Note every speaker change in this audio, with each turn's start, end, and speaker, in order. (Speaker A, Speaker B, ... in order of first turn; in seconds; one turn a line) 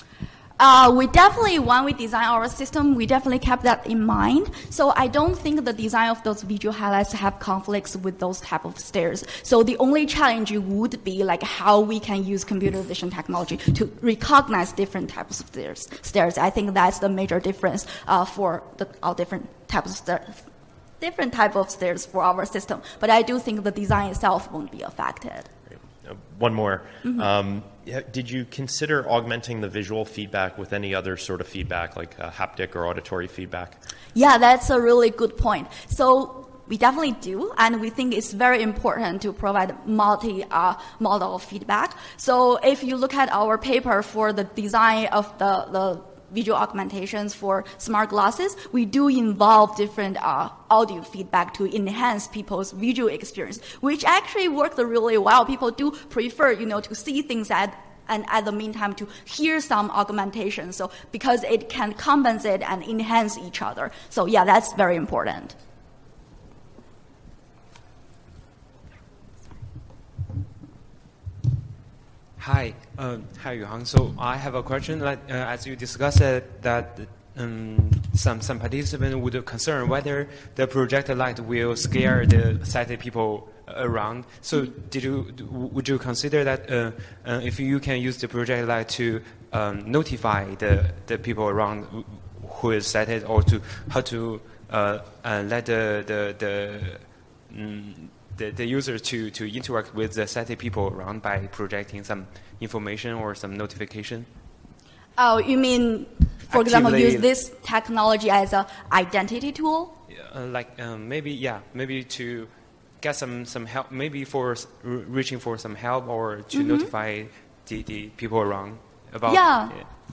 Speaker A: 0.6-20.5
Speaker A: 21.0-25.5
Speaker B: 25.7-33.8
Speaker A: 27.0-27.3
Speaker A: 34.1-65.6
Speaker C: 72.4-104.3
Speaker A: 105.2-110.0
Speaker C: 106.5-107.3
Speaker C: 110.1-119.8
Speaker A: 116.5-116.9
Speaker A: 119.3-119.8